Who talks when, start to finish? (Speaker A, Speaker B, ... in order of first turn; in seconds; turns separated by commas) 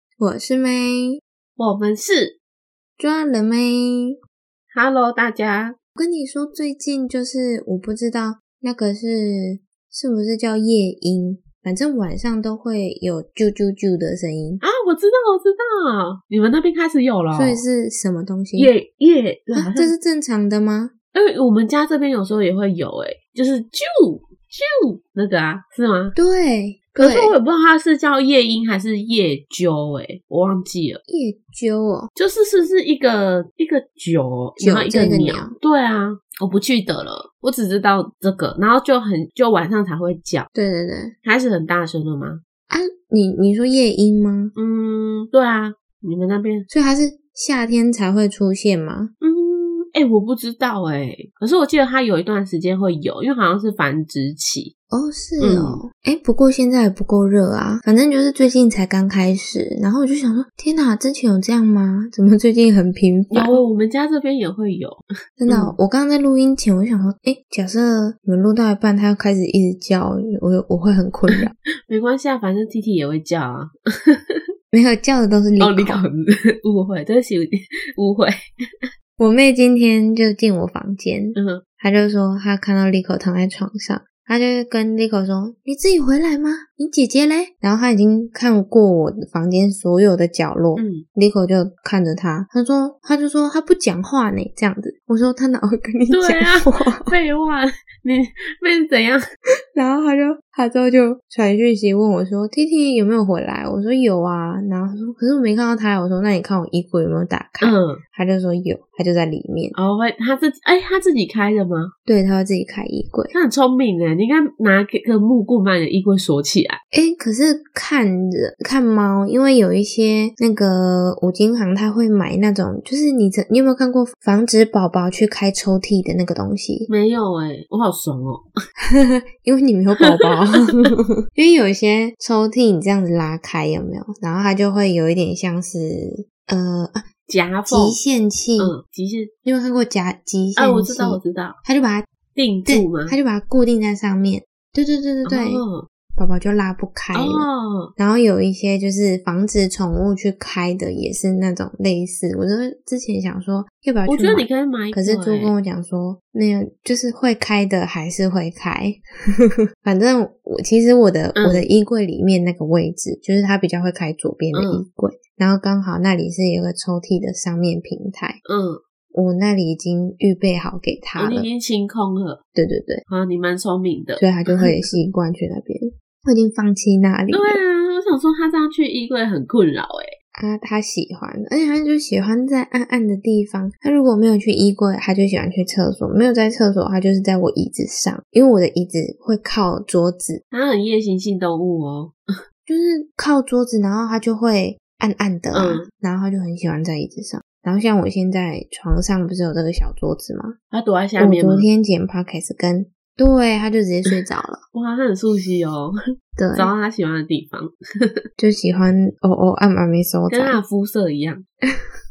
Speaker A: 0.2-1.2, Speaker B: 1.6-2.4, Speaker A: 3.0-4.2, Speaker B: 4.7-5.8, Speaker A: 6.0-14.6, Speaker B: 14.6-17.6, Speaker A: 17.3-18.7, Speaker B: 18.6-19.9, Speaker A: 19.6-20.9, Speaker B: 21.1-26.1, Speaker A: 26.1-27.3, Speaker B: 27.0-31.0, Speaker A: 31.1-32.1, Speaker B: 32.1-40.5, Speaker A: 34.6-35.5, Speaker A: 40.5-41.1, Speaker B: 41.2-42.4, Speaker A: 42.7-44.5, Speaker B: 44.5-46.7, Speaker A: 46.7-49.1, Speaker B: 49.2-54.7, Speaker A: 54.9-63.6, Speaker B: 55.4-55.8, Speaker B: 63.3-65.8, Speaker A: 65.4-71.5, Speaker B: 71.3-74.4, Speaker A: 74.7-76.0, Speaker B: 75.6-78.3, Speaker A: 79.2-97.1, Speaker B: 81.3-81.6, Speaker B: 90.8-91.0, Speaker B: 96.1-99.2, Speaker A: 99.7-109.8, Speaker B: 107.6-108.0, Speaker B: 109.8-111.9, Speaker A: 112.1-113.3, Speaker B: 113.3-116.8, Speaker A: 116.9-126.9, Speaker B: 126.9-128.5, Speaker A: 128.8-137.1, Speaker B: 130.6-130.9, Speaker B: 137.3-138.0, Speaker A: 137.7-138.8, Speaker B: 138.6-139.3, Speaker A: 139.4-142.1, Speaker B: 140.6-141.6, Speaker B: 142.3-143.2, Speaker A: 142.7-145.6, Speaker B: 145.2-145.9, Speaker A: 146.2-168.4, Speaker B: 147.1-147.9, Speaker B: 154.1-155.5, Speaker B: 161.4-161.7, Speaker B: 164.5-164.8, Speaker B: 168.5-168.8, Speaker A: 169.1-171.5, Speaker B: 171.2-172.4, Speaker A: 172.6-173.0, Speaker B: 173.1-174.9, Speaker A: 174.2-177.6, Speaker B: 177.3-180.1, Speaker A: 180.4-190.4, Speaker B: 190.5-192.2, Speaker A: 192.7-200.6, Speaker B: 195.5-195.9, Speaker B: 200.7-201.7, Speaker A: 201.2-204.6, Speaker B: 204.7-205.9, Speaker A: 206.4-206.7, Speaker B: 206.6-207.7, Speaker A: 208.4-210.6, Speaker B: 210.3-211.4